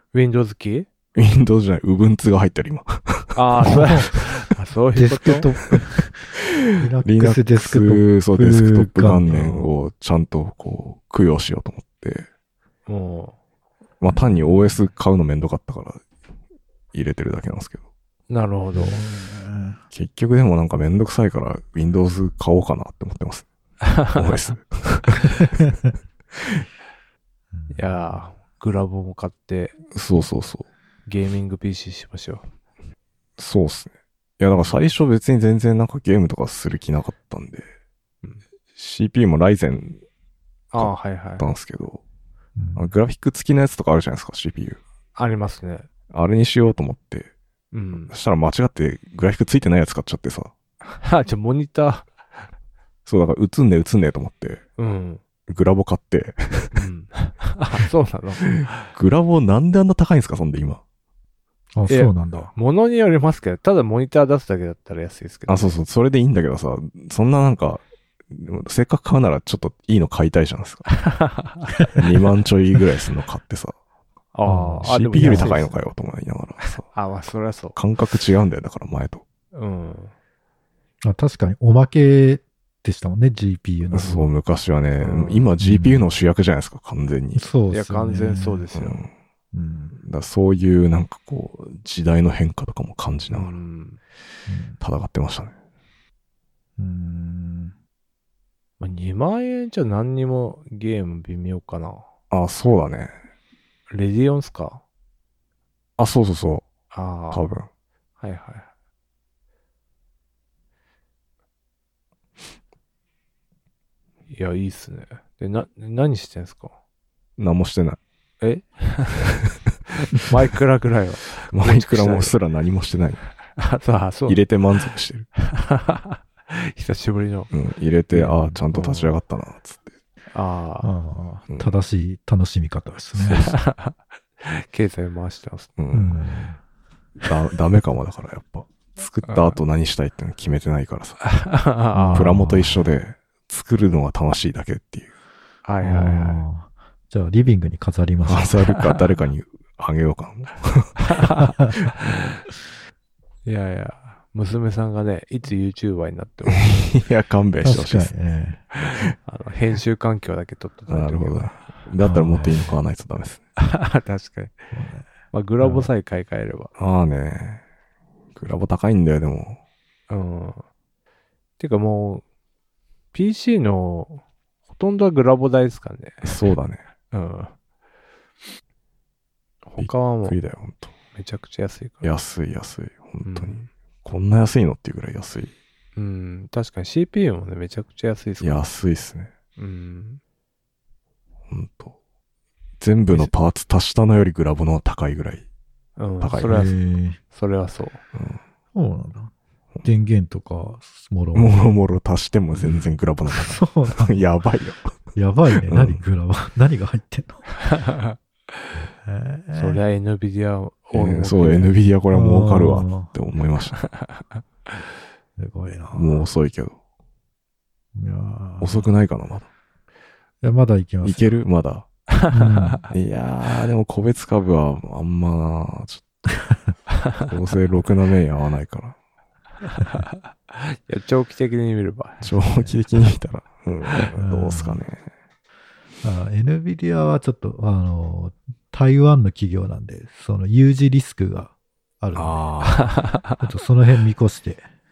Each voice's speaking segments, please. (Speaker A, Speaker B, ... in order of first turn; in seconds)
Speaker A: 0.1-0.9, 3.4-5.5, 12.9-13.4, 18.3-19.1, 23.9-24.2, 27.7-29.8, 31.1-32.5, 40.7-41.5, 45.1-45.9, 47.7-48.1, 50.9-52.1, 54.8-55.2, 56.7-58.7, 61.9-65.8, 70.9-71.7, 74.3-75.8, 76.7-77.8, 79.5-80.1, 85.0-85.5, 87.7-89.0, 93.3-94.0, 98.8-102.1, 103.9-104.8, 106.9-107.5, 108.2-108.7, 114.3-116.8, 118.4-119.4, 120.1-122.3, 123.6-124.4, 125.4-127.5, 128.1-129.2, 130.3-130.9, 133.3-135.7, 139.3-139.6, 141.2-142.3, 145.7-146.4, 151.1-151.5, 153.5-157.0, 158.9-161.7, 163.6-164.6, 165.3-166.7, 170.1-170.7, 171.6-172.2, 173.1-176.4, 177.1-177.5, 179.7-180.4, 181.1-182.1, 183.2-183.7, 186.0-188.7, 189.6-190.2, 196.0-196.8, 197.3-198.0, 207.7-208.2, 209.5-211.8, 213.9-214.2, 222.1-222.8, 229.8-232.6, 242.7-243.4
Speaker B: 1.1-4.3, 6.3-12.3, 14.0-16.0, 16.9-17.8, 19.9-23.5, 24.1-25.7, 26.4-26.6, 29.9-30.7, 33.4-37.7, 38.8-40.0, 40.8-42.0, 42.8-44.8, 46.1-47.3, 48.1-50.5, 53.1-54.6, 55.5-56.8, 58.4-60.8, 65.5-70.9, 72.0-73.8, 74.8-76.9, 77.8-79.2, 83.9-87.5, 88.7-89.1, 90.0-93.6, 94.8-95.5, 102.3-103.2, 106.0-106.7, 107.3-107.7, 117.4-118.0, 121.5-123.2, 124.3-125.3, 127.5-129.9, 131.5-131.7, 133.2-133.5, 135.8-136.2, 137.2-141.3, 142.1-145.1, 148.2-151.9, 156.6-158.1, 160.9-163.4, 166.8-167.6, 168.3-169.6, 176.2-176.8, 179.8-180.9, 182.0-185.5, 188.4-189.3, 191.5-192.0, 192.8-195.5, 196.2-196.6, 198.1-198.4, 201.3-205.0, 205.5-206.0, 210.9-213.8, 215.9-216.8, 218.6-219.5, 221.0-221.9, 222.9-226.3, 227.2-229.0, 232.2-235.1, 242.2-242.9
Speaker C: 3.6-4.1, 5.0-9.7, 18.8-19.8, 27.5-28.2, 42.6-42.9, 61.8-62.5, 74.5-75.5, 81.0-84.3, 85.6-86.1, 87.3-88.7, 89.5-90.0, 94.5-94.8, 96.8-97.7, 130.8-133.6, 135.9-136.6, 141.9-142.9, 145.8-148.7, 157.6-158.6, 162.0-162.7, 164.7-165.1, 165.6-165.9, 196.4-197.2, 198.7-199.3, 199.8-201.6, 203.3-204.2, 205.2-207.5, 208.8-209.8, 212.1-213.1, 215.4-216.3, 217.9-218.9, 220.4-221.3, 222.3-222.8, 234.2-234.8, 236.0-242.4, 243.4-244.6